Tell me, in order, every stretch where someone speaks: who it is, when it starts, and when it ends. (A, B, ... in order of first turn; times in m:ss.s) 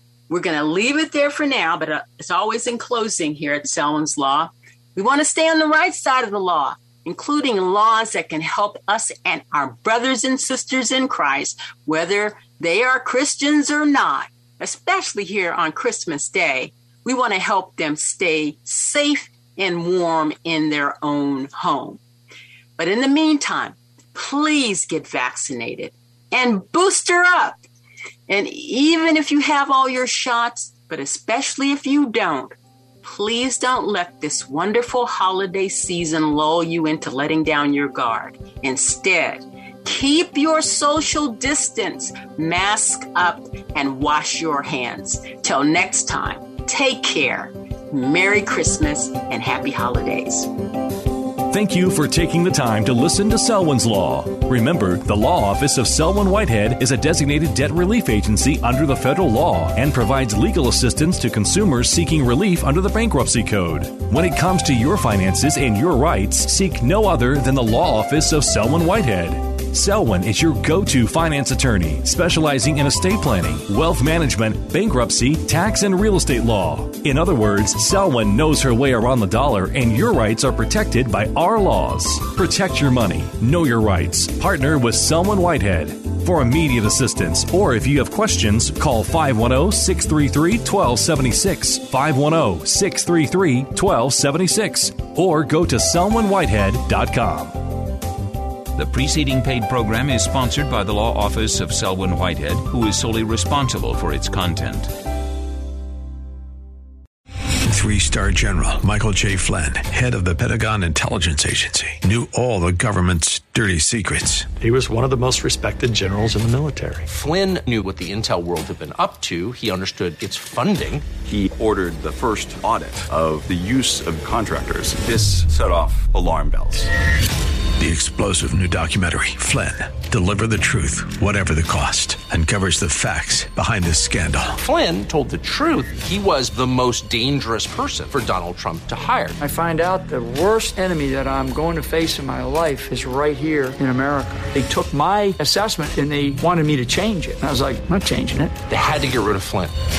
0:00.3-0:22.0 A
0:22.8-0:27.6 A
0:28.3-0:50.5 A
0:51.5-1:37.6 B
1:38.7-1:44.9 C
1:47.6-1:54.5 D
1:54.6-1:57.1 E
1:57.1-2:01.1 F
2:01.2-2:06.9 G
2:07.8-2:14.6 D
2:14.6-2:19.3 F
2:19.4-2:28.6 H
2:28.7-2:29.7 F